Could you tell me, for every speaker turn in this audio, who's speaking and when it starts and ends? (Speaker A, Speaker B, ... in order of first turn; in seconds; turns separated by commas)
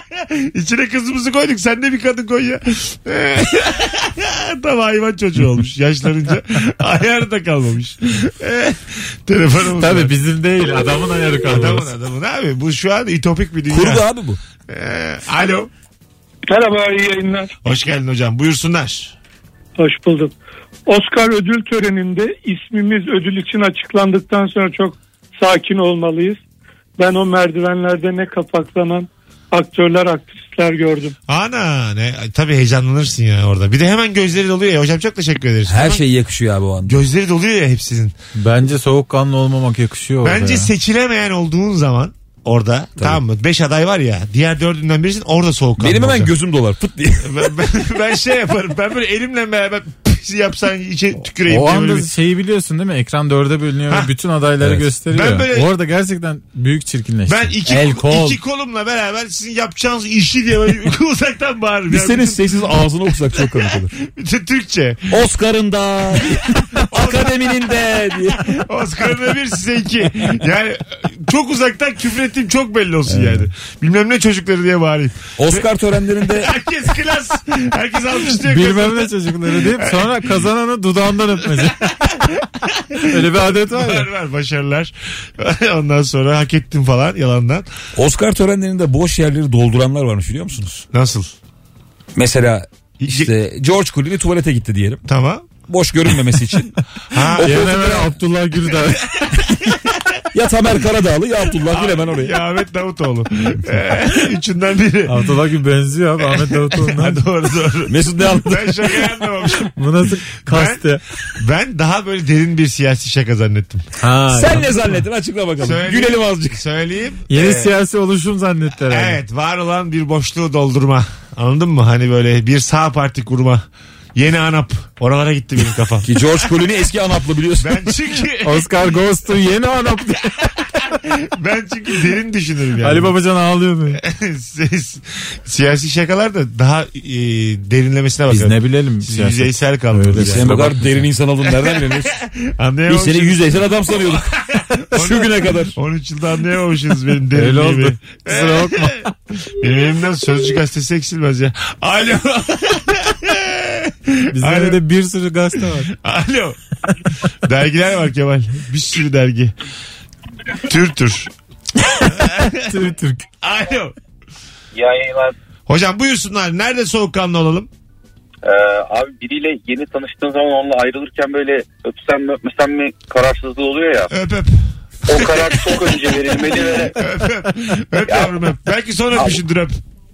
Speaker A: 0.1-10.2, Speaker B: 9.8-11.9, Speaker A: 11.5-14.0, Speaker C: 13.7-14.4, Speaker A: 14.7-15.7, Speaker D: 16.5-17.5, Speaker A: 17.6-19.1, Speaker D: 19.8-20.3, Speaker D: 20.9-26.4, Speaker D: 27.0-31.1, Speaker A: 31.3-36.0, Speaker C: 35.7-37.0, Speaker A: 36.9-38.1, Speaker B: 38.4-40.7, Speaker A: 40.2-46.3, Speaker C: 45.8-47.6, Speaker A: 47.2-52.1, Speaker B: 51.5-58.4, Speaker C: 54.6-54.9, Speaker A: 55.1-55.7, Speaker A: 57.3-62.6, Speaker C: 61.9-64.0, Speaker A: 64.0-65.2, Speaker C: 65.1-68.6, Speaker A: 66.9-67.5, Speaker A: 68.5-75.6, Speaker C: 75.4-76.5, Speaker A: 76.2-80.3, Speaker B: 78.4-82.1, Speaker A: 81.6-87.7, Speaker B: 83.0-84.1, Speaker C: 88.0-90.8, Speaker A: 90.9-91.3, Speaker C: 92.1-95.0, Speaker A: 93.0-93.3, Speaker A: 95.0-95.5, Speaker C: 95.7-96.8, Speaker A: 97.1-98.1, Speaker B: 97.4-99.3, Speaker A: 99.1-100.2, Speaker C: 100.3-102.4, Speaker A: 101.7-105.3, Speaker B: 105.1-107.2, Speaker A: 106.2-109.7, Speaker C: 107.9-109.1, Speaker B: 109.8-111.0, Speaker A: 110.5-110.8, Speaker A: 111.4-113.8, Speaker B: 114.0-115.0, Speaker C: 114.3-116.6, Speaker A: 115.6-117.7, Speaker B: 117.3-119.2, Speaker A: 118.9-126.1, Speaker C: 126.0-127.9, Speaker A: 127.6-128.7, Speaker B: 128.4-130.3, Speaker A: 130.8-133.1, Speaker B: 132.8-134.0, Speaker A: 133.9-140.6, Speaker B: 138.3-141.1, Speaker C: 140.2-142.2, Speaker A: 141.4-154.8, Speaker C: 142.9-145.7, Speaker B: 147.3-149.1, Speaker B: 154.3-155.9, Speaker A: 155.9-156.6, Speaker A: 157.4-159.5, Speaker A: 160.5-161.3, Speaker A: 162.0-162.8, Speaker B: 162.2-163.2, Speaker A: 163.4-163.9, Speaker E: 164.7-165.3, Speaker A: 165.7-167.7, Speaker E: 168.4-174.1, Speaker A: 174.1-174.5, Speaker E: 175.1-177.0, Speaker A: 175.1-179.8, Speaker E: 178.0-178.5, Speaker E: 179.1-179.4